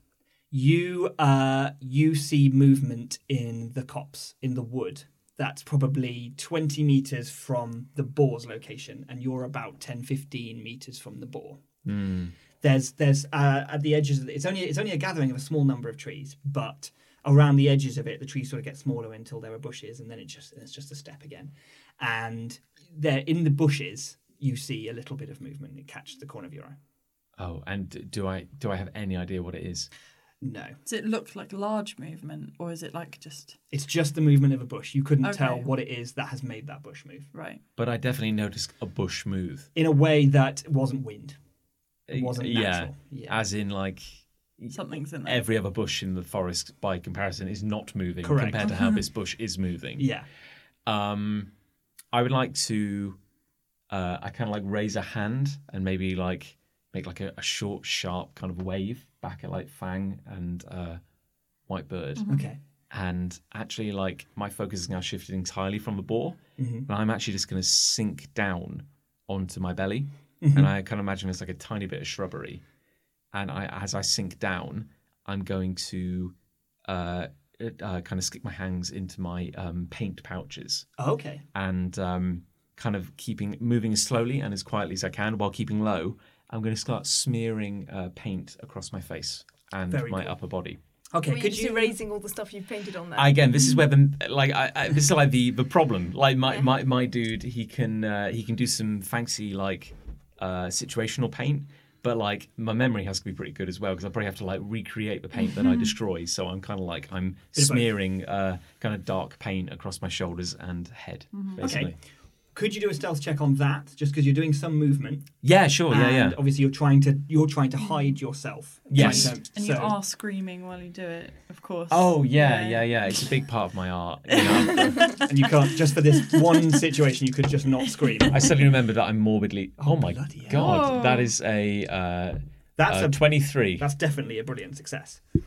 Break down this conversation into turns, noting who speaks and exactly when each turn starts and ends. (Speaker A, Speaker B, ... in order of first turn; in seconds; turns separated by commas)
Speaker A: 0.5-11.6, Speaker B: 11.8-12.3, Speaker A: 12.6-26.8, Speaker B: 27.4-29.9, Speaker A: 30.4-30.8, Speaker C: 30.8-33.6, Speaker A: 33.7-37.3, Speaker C: 35.2-35.7, Speaker C: 37.3-37.6, Speaker B: 37.8-39.7, Speaker A: 39.7-41.4, Speaker B: 42.1-50.1, Speaker A: 42.1-43.4, Speaker C: 44.7-45.4, Speaker A: 48.2-48.7, Speaker C: 48.7-49.0, Speaker A: 50.0-50.2, Speaker B: 50.9-51.5, Speaker B: 52.1-53.2, Speaker B: 53.9-61.0, Speaker B: 61.7-62.4, Speaker C: 62.2-62.5, Speaker A: 62.3-62.6, Speaker B: 62.9-72.6, Speaker A: 66.6-66.9, Speaker A: 70.4-70.7, Speaker B: 73.3-76.3, Speaker B: 76.8-80.9, Speaker A: 81.0-81.4, Speaker B: 81.5-90.8, Speaker A: 89.9-90.3, Speaker A: 91.1-92.0, Speaker D: 91.3-93.3, Speaker B: 93.2-111.9, Speaker A: 107.5-107.9, Speaker C: 111.3-111.6, Speaker A: 111.6-111.9, Speaker A: 112.5-115.3, Speaker B: 115.4-116.4, Speaker A: 115.9-120.0, Speaker B: 118.9-119.4, Speaker C: 118.9-123.1, Speaker B: 121.9-125.3, Speaker C: 124.4-125.2, Speaker A: 125.2-128.6, Speaker B: 128.3-133.9, Speaker A: 129.8-130.9, Speaker C: 130.5-131.3, Speaker A: 132.8-135.2